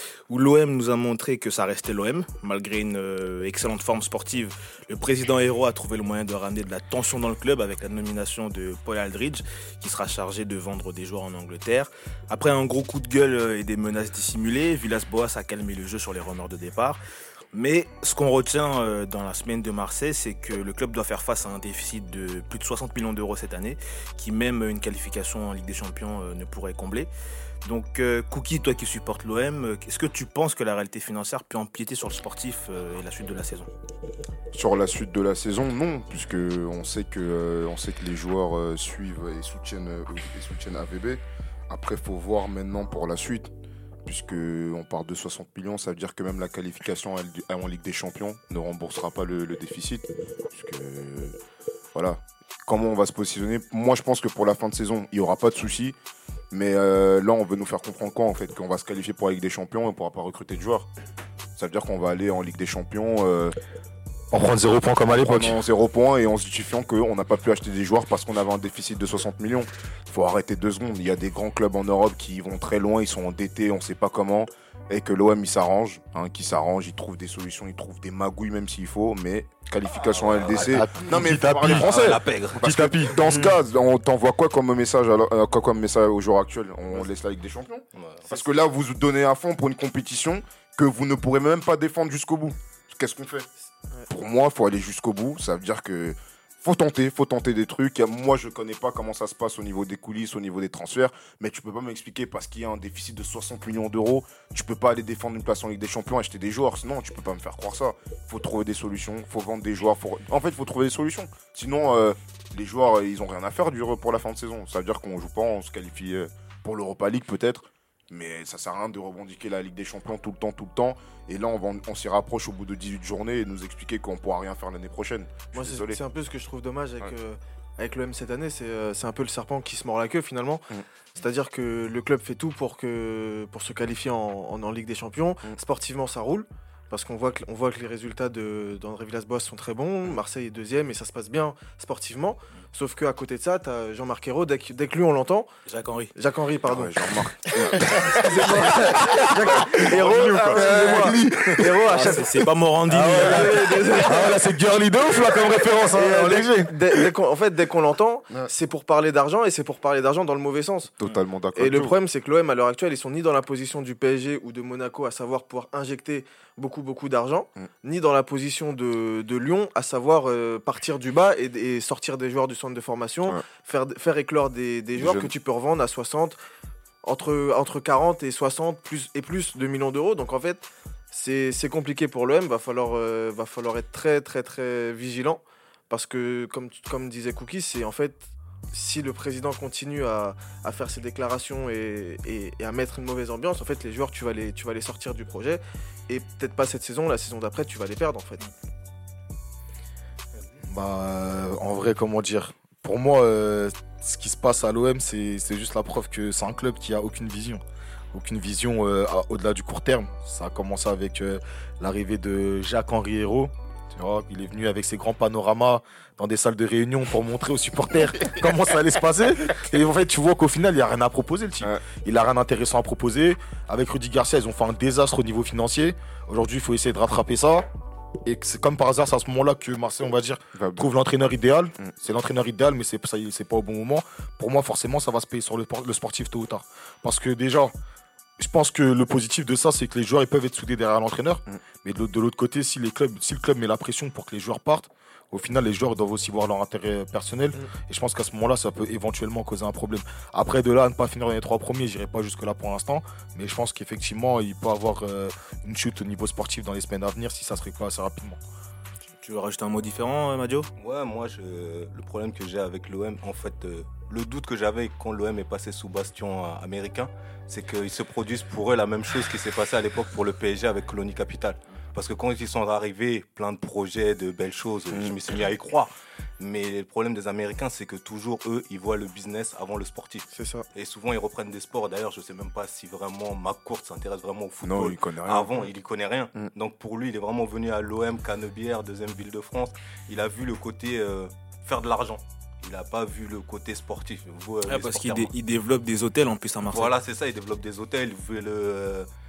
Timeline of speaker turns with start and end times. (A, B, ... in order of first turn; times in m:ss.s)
0:00.3-0:17.0 A
0:17.5-0:27.1 A
0:27.6-0:33.7 A
0:34.5-0:43.5 B
0:44.0-0:51.4 B
0:51.9-0:56.0 B
0:56.5-1:00.9 B
1:01.6-1:03.6 B
1:04.3-1:05.6 C
1:05.1-1:33.5 B
1:20.0-1:20.7 D
1:20.5-1:23.2 C
1:21.7-1:22.7 D
1:23.2-1:23.6 E
1:27.9-1:28.3 D
1:34.1-2:06.0 B
2:05.5-2:25.5 E
2:25.7-2:26.1 A
2:26.2-2:27.5 E
2:26.7-2:28.0 B
2:28.0-2:32.4 E
2:28.4-2:29.6 C
2:29.7-2:30.7 D
2:30.4-2:32.2 C
2:31.8-2:33.8 A
2:32.9-2:37.1 C
2:33.2-2:34.4 E
2:35.8-2:41.0 E
2:41.0-2:42.0 B
2:41.6-2:56.4 E
2:55.0-2:55.3 B
2:57.0-3:18.5 E
3:20.6-3:27.6 C
3:28.1-3:47.7 C
3:48.2-3:57.8 C
3:50.6-3:50.9 B
3:58.4-4:18.4 C
4:19.2-4:20.7 A
4:20.8-4:55.3 D
4:40.3-4:40.6 E
4:44.6-4:45.6 B
4:54.6-4:57.0 A
4:56.7-4:59.1 D